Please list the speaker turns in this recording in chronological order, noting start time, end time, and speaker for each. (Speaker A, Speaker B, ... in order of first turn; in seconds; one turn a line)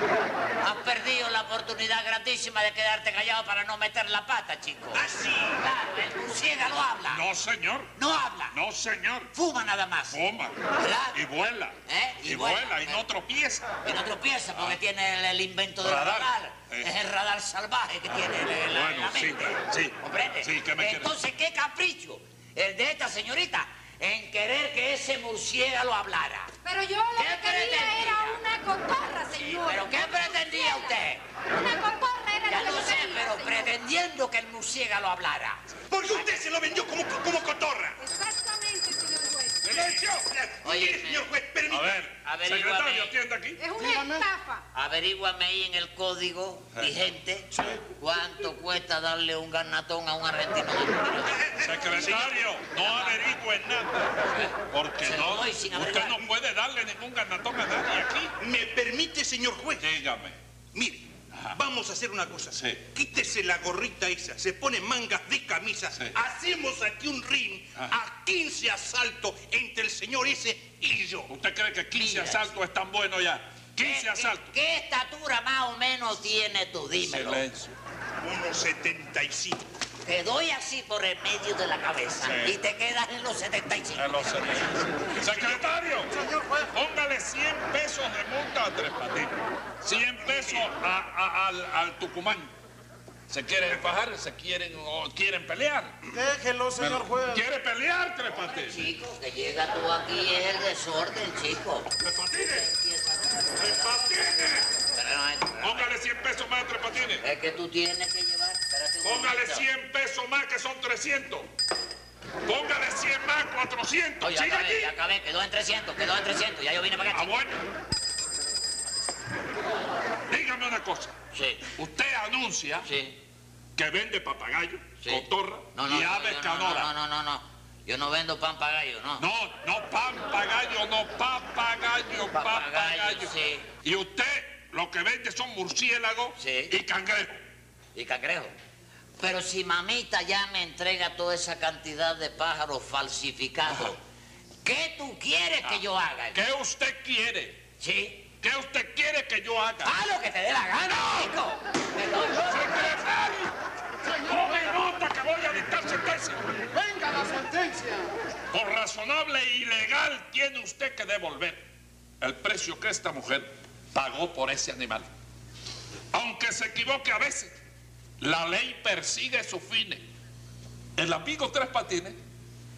Speaker A: 0.6-7.2
Speaker B: 4.9-5.6
Speaker C: 7.1-7.9
Speaker A: 8.0-8.6
Speaker C: 8.5-9.3
Speaker A: 9.3-10.2
Speaker C: 10.1-13.7
Speaker A: 10.8-11.2
Speaker A: 11.9-13.0
Speaker A: 13.8-26.5
Speaker C: 15.8-16.9
Speaker C: 18.5-21.1
Speaker D: 26.6-33.8
Speaker A: 27.2-28.4
Speaker A: 29.3-31.2
Speaker A: 32.5-36.3
Speaker B: 35.9-38.0
Speaker D: 38.0-39.7
Speaker C: 39.6-40.3
Speaker B: 39.7-42.0
Speaker A: 40.6-41.3
Speaker C: 41.7-43.6
Speaker A: 42.2-43.1
Speaker D: 43.6-44.6
Speaker E: 43.8-44.3
Speaker A: 44.7-51.5
Speaker B: 51.4-52.4
Speaker C: 51.6-58.3
Speaker A: 52.7-53.3
Speaker A: 55.0-56.2
Speaker B: 58.4-59.9
Speaker C: 59.8-60.4
Speaker B: 60.7-71.3
Speaker C: 61.3-61.6
Speaker C: 62.5-62.8
Speaker C: 71.3-74.5
Speaker A: 71.9-72.5
Speaker A: 73.8-77.4
Speaker C: 77.0-77.8
Speaker B: 78.2-79.6
Speaker A: 80.0-84.9
Speaker C: 82.2-82.6
Speaker C: 84.0-86.2
Speaker B: 85.2-85.7
Speaker E: 86.1-86.7
Speaker C: 86.7-92.5
Speaker C: 93.3-96.0
Speaker E: 96.1-97.5
Speaker C: 96.8-98.8
Speaker A: 98.3-105.9
Speaker C: 102.0-102.7
Speaker C: 103.6-104.7
Speaker C: 105.6-107.2
Speaker A: 107.2-109.7
Speaker C: 109.0-111.5
Speaker C: 112.4-114.9
Speaker A: 114.2-117.4
Speaker C: 117.1-117.6
Speaker C: 120.3-121.1
Speaker A: 121.3-121.7
Speaker C: 121.8-122.9
Speaker A: 122.8-123.2
Speaker C: 123.8-126.9
Speaker A: 125.0-129.3
Speaker C: 129.2-137.4
Speaker A: 132.3-133.7
Speaker A: 136.4-136.7
Speaker A: 137.9-138.6
Speaker A: 139.2-144.0
Speaker A: 144.7-146.4
Speaker C: 146.3-147.6
Speaker A: 147.8-148.3
Speaker C: 148.4-150.0
Speaker A: 149.8-153.0
Speaker C: 152.4-153.5
Speaker C: 154.1-156.4
Speaker E: 156.7-158.1
Speaker C: 158.5-161.6
Speaker C: 162.2-165.1
Speaker C: 166.1-167.5
Speaker C: 168.2-170.0
Speaker C: 171.0-172.2